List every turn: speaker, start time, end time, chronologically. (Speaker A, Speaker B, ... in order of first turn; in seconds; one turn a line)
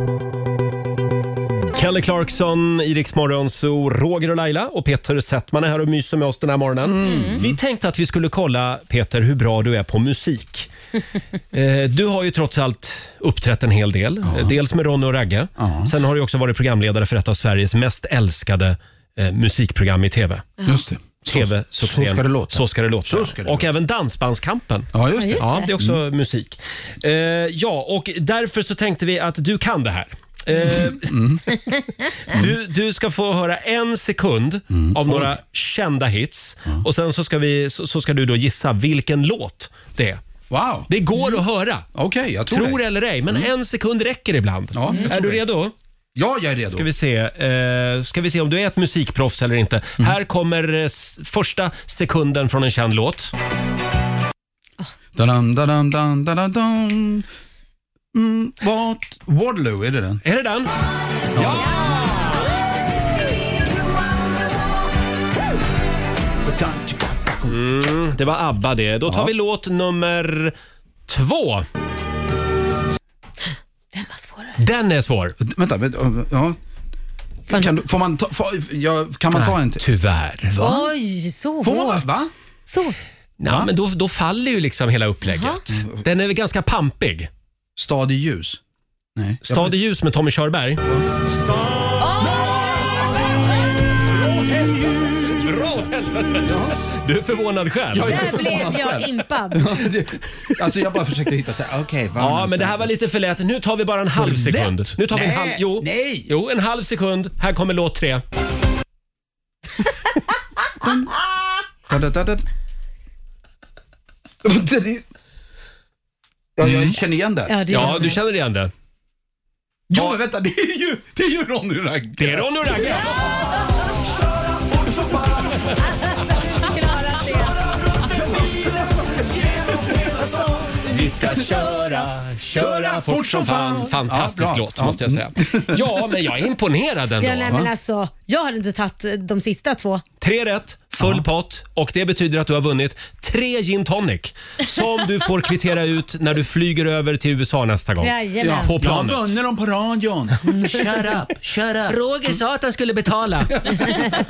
Speaker A: 1.8-10.7
Speaker B: 6.9-7.6
Speaker A: 11.5-20.5
Speaker B: 14.2-14.6
Speaker B: 15.6-15.9
Speaker B: 20.7-23.7
Speaker A: 21.3-31.1
Speaker B: 24.9-26.0
Speaker C: 25.2-25.7
Speaker B: 30.6-31.5
Speaker A: 32.3-40.2
Speaker B: 34.7-35.3
Speaker B: 40.5-40.9
Speaker A: 40.9-41.9
Speaker B: 42.0-43.5
Speaker A: 42.5-45.7
Speaker B: 44.7-45.5
Speaker B: 46.1-46.9
Speaker A: 46.7-53.3
Speaker B: 55.2-57.3
Speaker B: 58.1-60.2
Speaker A: 60.2-60.7
Speaker B: 61.3-61.8
Speaker A: 61.3-62.5
Speaker C: 61.8-62.6
Speaker C: 63.2-63.9
Speaker B: 66.4-67.9
Speaker A: 67.5-70.5
Speaker B: 69.1-69.3
Speaker A: 71.1-71.7
Speaker C: 73.9-74.6
Speaker A: 74.6-75.4
Speaker B: 75.4-76.6
Speaker B: 77.5-79.8
Speaker A: 79.3-80.6
Speaker B: 80.5-80.9
Speaker C: 80.5-82.9
Speaker B: 81.6-82.3
Speaker A: 83.4-87.3
Speaker B: 83.5-83.7
Speaker C: 85.2-85.6
Speaker B: 85.7-86.0
Speaker B: 87.8-88.6
Speaker B: 89.2-89.7
Speaker A: 89.5-90.8
Speaker B: 90.9-91.8
Speaker C: 92.0-93.2
Speaker B: 94.1-95.5
Speaker A: 95.1-98.4
Speaker B: 96.4-96.8
Speaker B: 97.9-102.9
Speaker C: 98.0-99.8
Speaker A: 102.2-108.2
Speaker B: 104.1-106.3
Speaker B: 110.8-111.1
Speaker B: 111.9-112.5
Speaker B: 114.4-115.0
Speaker B: 116.6-118.1
Speaker A: 116.6-117.0
Speaker C: 117.5-118.2
Speaker A: 117.7-118.7
Speaker B: 119.9-122.9
Speaker A: 122.2-123.2
Speaker B: 124.7-125.5
Speaker C: 126.3-127.7
Speaker B: 128.0-128.6
Speaker B: 129.3-130.5
Speaker A: 130.8-137.6
Speaker B: 132.5-136.2
Speaker C: 137.2-140.0
Speaker A: 140.2-149.3
Speaker B: 141.0-141.2
Speaker C: 148.0-148.7
Speaker B: 148.4-152.4
Speaker A: 151.9-154.1